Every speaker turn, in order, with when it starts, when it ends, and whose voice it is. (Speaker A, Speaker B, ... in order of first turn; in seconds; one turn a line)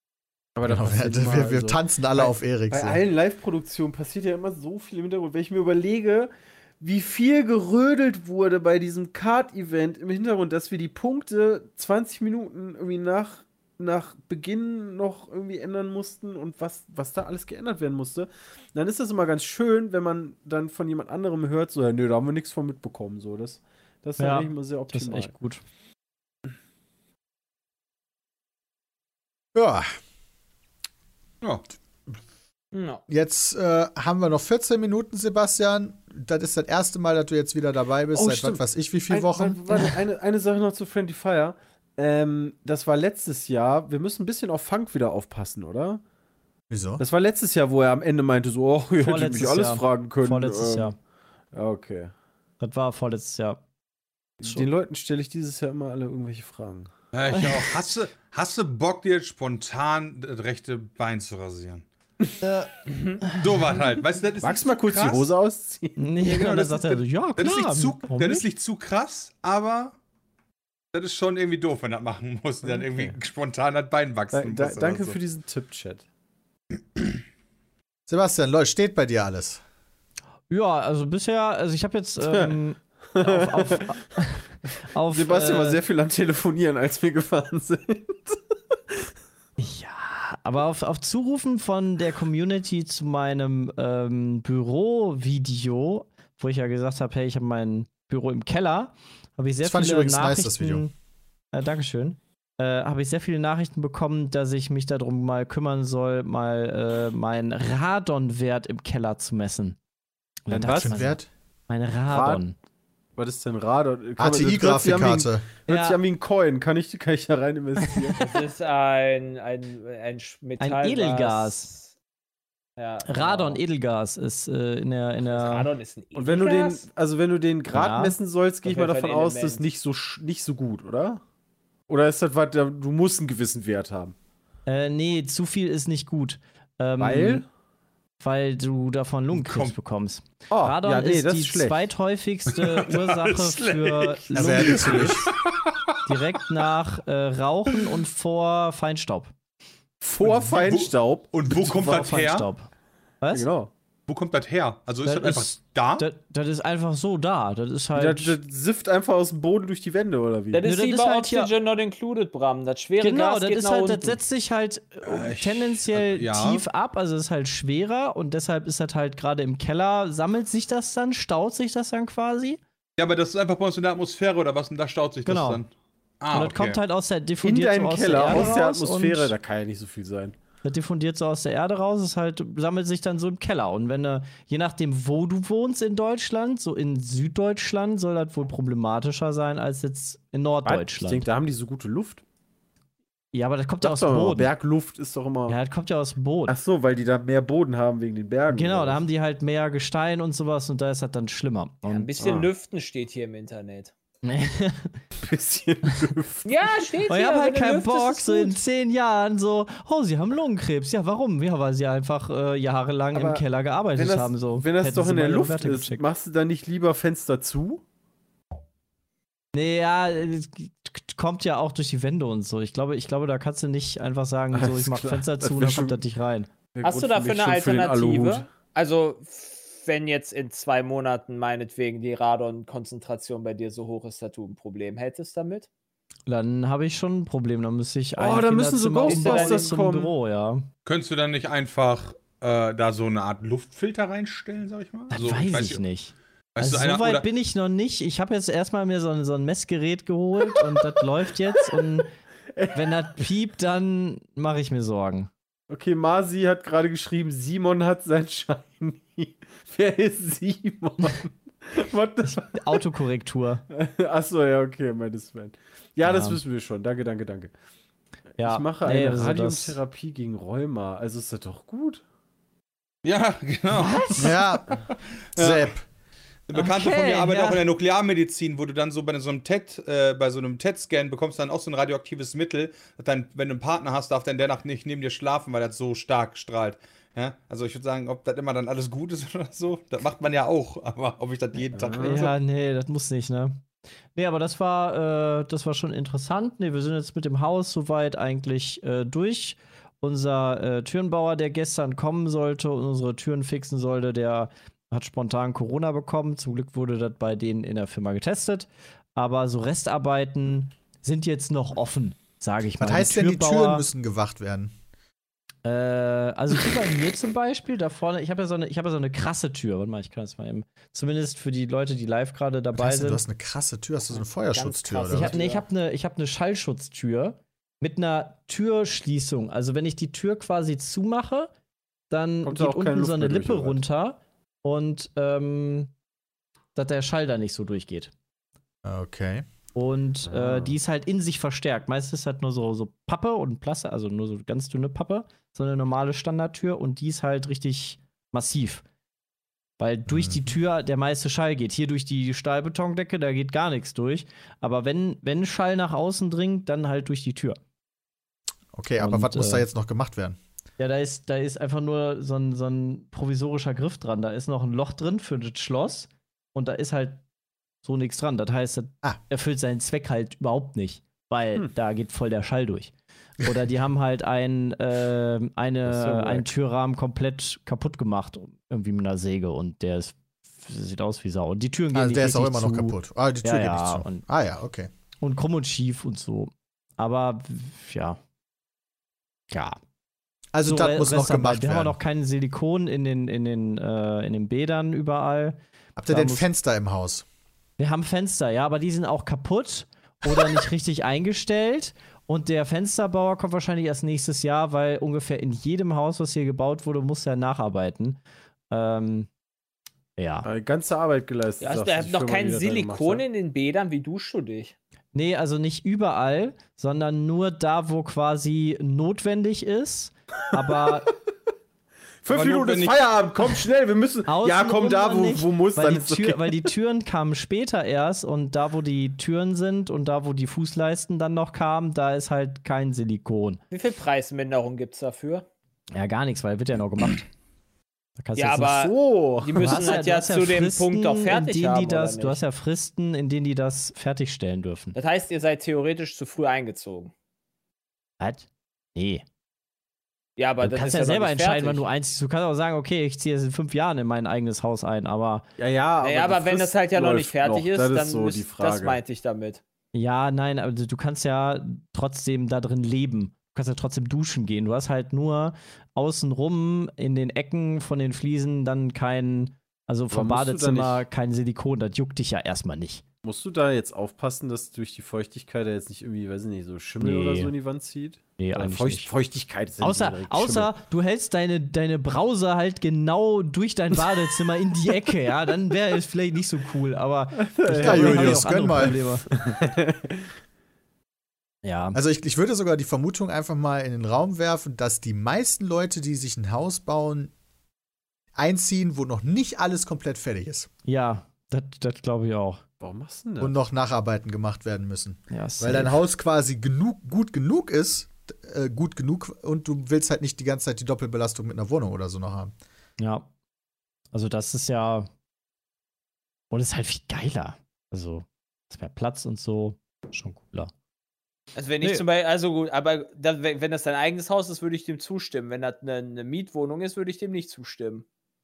Speaker A: 0.5-25.3
Speaker B: 0.7-3.0
Speaker C: 24.2-25.6
Speaker B: 29.5-29.9
Speaker D: 32.7-33.0
Speaker B: 33.1-39.6
Speaker A: 38.1-46.0
Speaker B: 46.7-47.0
Speaker A: 47.0-50.9
Speaker C: 49.0-51.0
Speaker A: 51.5-52.1
Speaker C: 52.6-53.6
Speaker A: 54.4-56.9
Speaker E: 57.1-61.8
Speaker C: 62.4-63.5
Speaker E: 63.3-65.3
Speaker A: 64.4-66.1
Speaker C: 66.0-68.4
Speaker E: 66.2-69.9
Speaker E: 70.9-75.2
Speaker A: 72.7-73.1
Speaker A: 74.3-76.0
Speaker B: 78.1-79.6
Speaker C: 80.5-85.8
Speaker A: 82.2-82.5
Speaker A: 83.1-84.0
Speaker A: 85.1-89.0
Speaker C: 89.6-100.9
Speaker B: 99.6-100.8
Speaker C: 101.5-109.8
Speaker C: 110.5-111.2
Speaker B: 110.5-111.3
Speaker A: 110.5-111.1
Speaker C: 111.7-112.5
Speaker A: 112.1-112.4
Speaker A: 113.2-118.4
Speaker B: 114.2-115.5
Speaker C: 115.7-116.0
Speaker D: 118.2-121.9
Speaker C: 120.6-121.7
Speaker D: 122.8-123.6
Speaker C: 123.0-125.7
Speaker D: 125.2-126.8
Speaker A: 126.1-131.2
Speaker C: 127.7-128.1
Speaker D: 128.6-129.6
Speaker A: 131.9-134.1
Speaker C: 134.7-137.4
Speaker A: 137.0-137.4
Speaker C: 138.2-145.2
Speaker E: 139.3-139.7
Speaker A: 140.5-141.8
Speaker E: 142.5-146.1
Speaker B: 144.3-145.3
Speaker C: 146.1-149.3
Speaker A: 150.0-152.2
Speaker E: 150.2-152.5
Speaker C: 151.8-152.7
Speaker A: 153.3-153.7
Speaker E: 154.1-156.1
Speaker C: 155.0-158.4
Speaker A: 157.9-160.6
Speaker D: 160.5-164.2
Speaker C: 160.6-161.5
Speaker C: 163.0-172.6
Speaker E: 165.0-166.6
Speaker E: 173.0-175.7
Speaker C: 175.2-175.6
Speaker E: 176.2-176.8
Speaker C: 176.3-179.3
Speaker A: 177.4-180.3
Speaker C: 180.6-191.3
Speaker A: 190.6-192.2
Speaker C: 193.3-194.5
Speaker A: 193.8-195.6
Speaker C: 195.5-196.5
Speaker A: 196.5-199.0
Speaker C: 198.5-202.1
Speaker D: 201.9-203.9
Speaker A: 202.2-202.5
Speaker C: 204.2-205.0
Speaker A: 205.2-206.5
Speaker D: 206.4-208.5
Speaker C: 207.1-216.0
Speaker A: 213.1-213.4
Speaker A: 213.9-217.8
Speaker C: 219.5-226.5
Speaker A: 224.5-226.0
Speaker A: 226.7-228.5
Speaker D: 226.8-235.7
Speaker C: 236.3-240.7
Speaker A: 238.2-240.1
Speaker D: 239.1-239.8
Speaker E: 240.8-245.8
Speaker C: 245.1-252.1
Speaker E: 246.5-247.2
Speaker A: 252.5-253.1
Speaker C: 252.7-255.3
Speaker A: 255.7-262.8
Speaker C: 262.3-263.6
Speaker A: 263.7-267.5
Speaker C: 266.1-266.4
Speaker C: 268.4-269.8
Speaker A: 268.4-272.0
Speaker E: 273.0-274.4
Speaker C: 273.7-274.4
Speaker B: 274.2-274.8
Speaker E: 275.3-275.7
Speaker B: 275.4-275.8
Speaker E: 276.5-292.3
Speaker C: 276.5-277.6
Speaker A: 291.8-292.2
Speaker C: 291.9-293.6
Speaker C: 294.1-313.9
Speaker B: 312.8-314.7
Speaker C: 315.6-323.2
Speaker B: 322.8-325.4
Speaker D: 324.0-325.6
Speaker C: 325.1-331.5
Speaker C: 332.1-335.9
Speaker A: 332.4-333.8
Speaker C: 336.7-338.1
Speaker B: 338.8-339.4
Speaker C: 339.7-348.8
Speaker A: 340.2-340.8
Speaker C: 349.8-357.6
Speaker B: 350.1-350.4
Speaker B: 358.7-360.4
Speaker C: 359.0-359.6
Speaker C: 360.8-367.2
Speaker C: 367.8-384.2
Speaker A: 375.9-376.4
Speaker B: 381.9-384.9
Speaker C: 385.2-388.2
Speaker C: 389.5-389.8
Speaker B: 390.5-392.0
Speaker C: 390.6-396.4
Speaker B: 396.0-397.2
Speaker C: 397.8-408.2
Speaker C: 408.7-409.3
Speaker C: 410.2-410.5
Speaker A: 410.4-413.2
Speaker D: 411.6-414.7
Speaker C: 415.1-421.1
Speaker A: 420.6-421.1
Speaker A: 422.2-426.5
Speaker E: 422.3-423.0
Speaker C: 424.3-433.6
Speaker D: 433.7-435.4
Speaker C: 435.9-437.3
Speaker C: 438.2-438.8
Speaker D: 438.4-442.4
Speaker A: 438.6-439.9
Speaker C: 439.6-444.9
Speaker D: 444.9-447.1
Speaker C: 448.2-449.2
Speaker D: 450.4-451.8
Speaker C: 450.6-455.4
Speaker A: 455.6-459.0
Speaker D: 456.0-459.6
Speaker C: 459.9-473.0
Speaker A: 470.1-471.0
Speaker A: 473.2-480.7
Speaker C: 477.0-477.5
Speaker C: 478.4-479.1
Speaker C: 479.8-489.2
Speaker A: 487.4-490.3
Speaker B: 487.7-489.0
Speaker C: 491.6-492.0
Speaker B: 491.9-497.3
Speaker B: 498.3-500.7
Speaker C: 500.9-502.6
Speaker A: 502.8-503.5
Speaker B: 503.4-512.5
Speaker C: 505.3-506.0
Speaker C: 513.0-513.3
Speaker C: 514.1-515.1
Speaker C: 516.5-520.7
Speaker D: 521.5-528.0